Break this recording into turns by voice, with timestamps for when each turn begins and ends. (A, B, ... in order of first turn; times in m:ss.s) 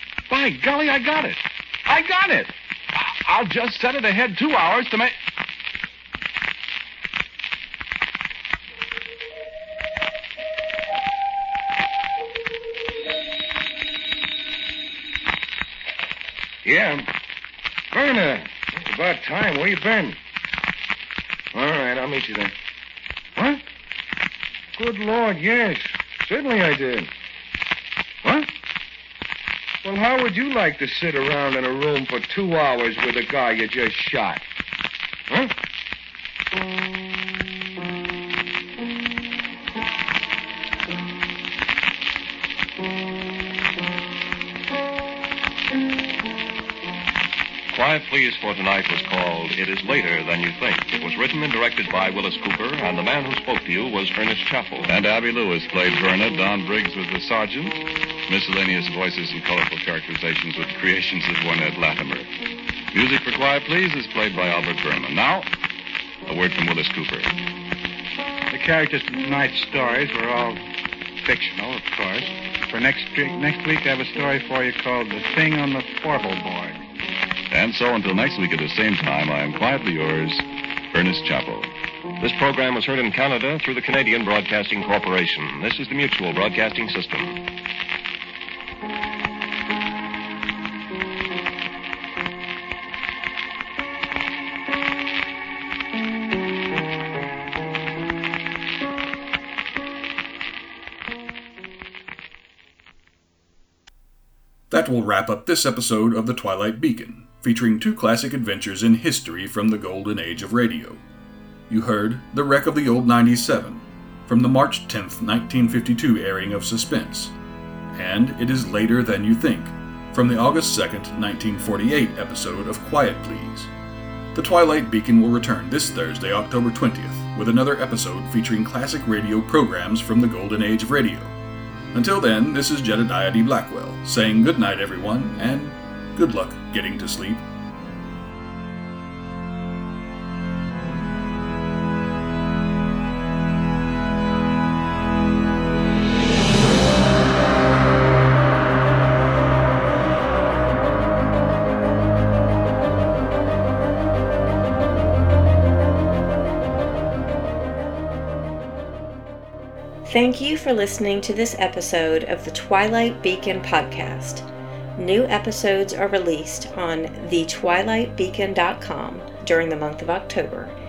0:00.3-0:05.2 A
0:16.6-0:17.1 B
0:17.9-0:20.2 B
0:21.5-0:22.5 B
0:23.4-0:23.6 B
0:24.8-0:27.1 B
0:29.8-0:34.4 B
0:47.7-0:54.9 C
0:54.9-1:02.3 A
1:02.9-1:05.5 A
1:06.3-1:07.3 A
1:08.5-1:10.6 D
1:11.2-1:16.8 D
1:17.5-1:21.7 A
1:22.2-1:27.4 C
1:44.7-1:51.0 E
1:51.7-1:57.3 E
1:57.9-2:03.7 E
2:04.3-2:11.3 E
2:11.9-2:17.4 E
2:40.0-2:50.8 F